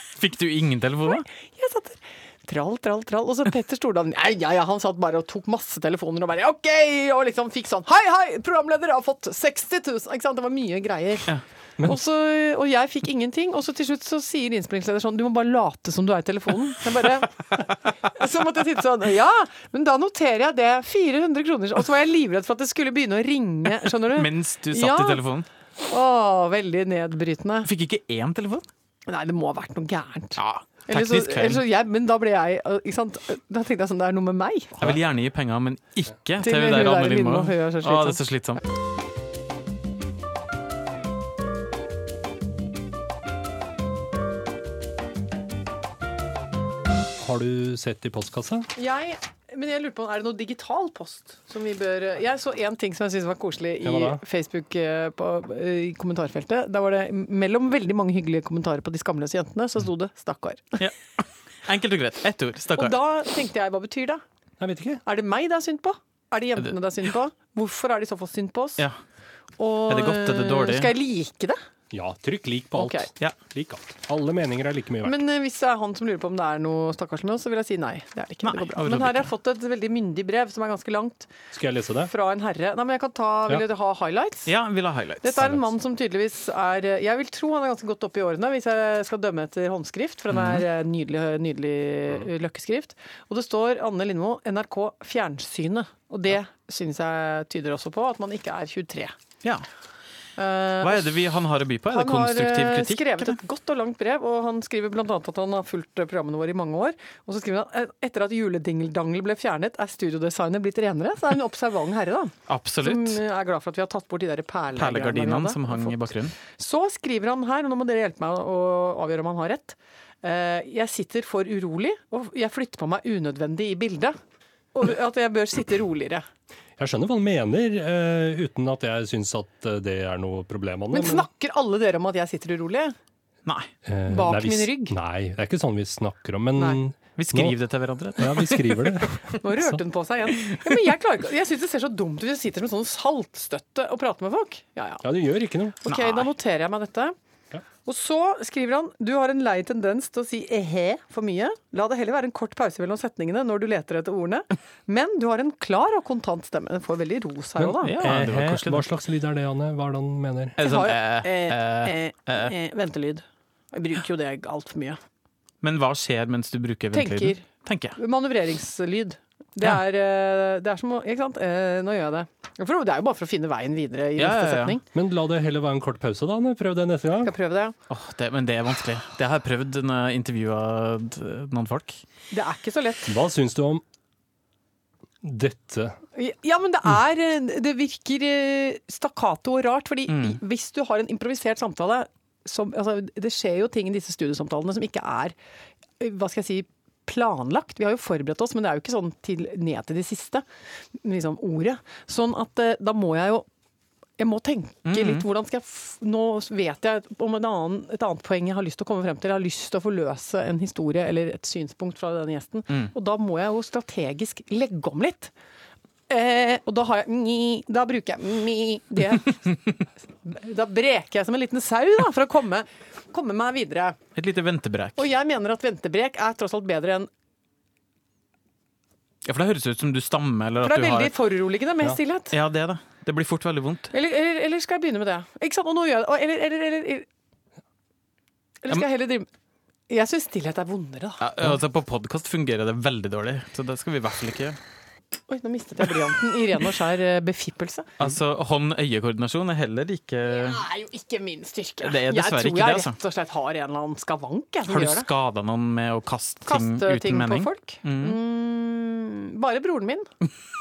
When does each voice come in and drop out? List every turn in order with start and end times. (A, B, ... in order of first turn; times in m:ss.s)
0:00.2-0:01.3 A
0:01.2-0:25.2 B
0:24.2-0:25.5 A
0:25.8-0:27.7 B
0:27.6-0:28.6 A
0:29.1-0:34.8 B
0:30.4-0:31.6 A
0:34.8-0:38.6 A
0:36.4-0:38.2 B
0:47.2-0:48.7 C
0:48.8-1:00.8 B
0:53.8-0:54.2 C
1:00.8-1:03.0 A
1:02.8-1:04.2 B
1:04.6-1:05.0 C
1:05.0-1:08.9 B
1:09.6-1:11.6 B
1:09.9-1:10.9 A
1:11.9-1:15.2 C
1:12.8-1:13.1 B
1:15.0-1:21.3 B
1:18.4-1:19.3 A
1:21.5-1:22.1 C
1:22.0-1:24.5 B
1:24.5-1:25.5 A
1:25.2-1:39.1 B
1:30.3-1:30.6 A
1:40.4-1:41.1 B
1:40.8-1:43.4 A
1:41.9-2:04.2 B
1:52.5-1:53.2 A
1:54.8-1:56.3 A
2:04.7-2:06.3 B
2:06.8-2:11.3 C
2:10.9-2:13.0 B
2:13.8-2:17.6 C
2:14.1-2:15.0 B
2:17.2-2:19.2 A
2:18.2-2:19.8 C
2:19.4-2:25.1 B
2:25.0-2:25.8 C
2:25.8-2:27.1 B
2:25.9-2:26.3 A
2:27.8-2:38.0 B
2:37.6-2:40.6 C
2:37.8-2:38.9 A
2:40.6-2:42.5 A
2:40.6-2:45.0 B
2:45.6-2:48.0 A
2:46.9-2:54.8 B
2:54.2-2:54.8 A
2:54.9-2:57.3 C
2:57.2-2:57.8 B
2:57.9-3:02.0 A
3:02.3-3:03.2 B
3:03.1-3:03.8 C
3:05.2-3:06.0 C
3:06.1-3:15.4 B
3:10.1-3:10.4 A
3:16.0-3:20.4 B
3:21.0-3:23.5 B
3:24.2-3:35.3 B
3:24.8-3:25.2 A
3:36.1-3:44.0 B
3:44.2-3:45.0 A
3:45.0-3:47.1 B
3:49.2-3:51.1 A
3:50.6-3:52.4 B
3:52.3-3:53.9 A
3:53.9-3:57.1 B
3:58.6-3:59.3 B
3:59.9-4:01.2 B
4:01.2-4:04.6 A
4:05.3-4:08.0 B
4:08.0-4:10.6 A
4:10.3-4:15.1 B
4:11.8-4:13.0 A
4:14.7-4:18.2 A
4:16.5-4:20.1 B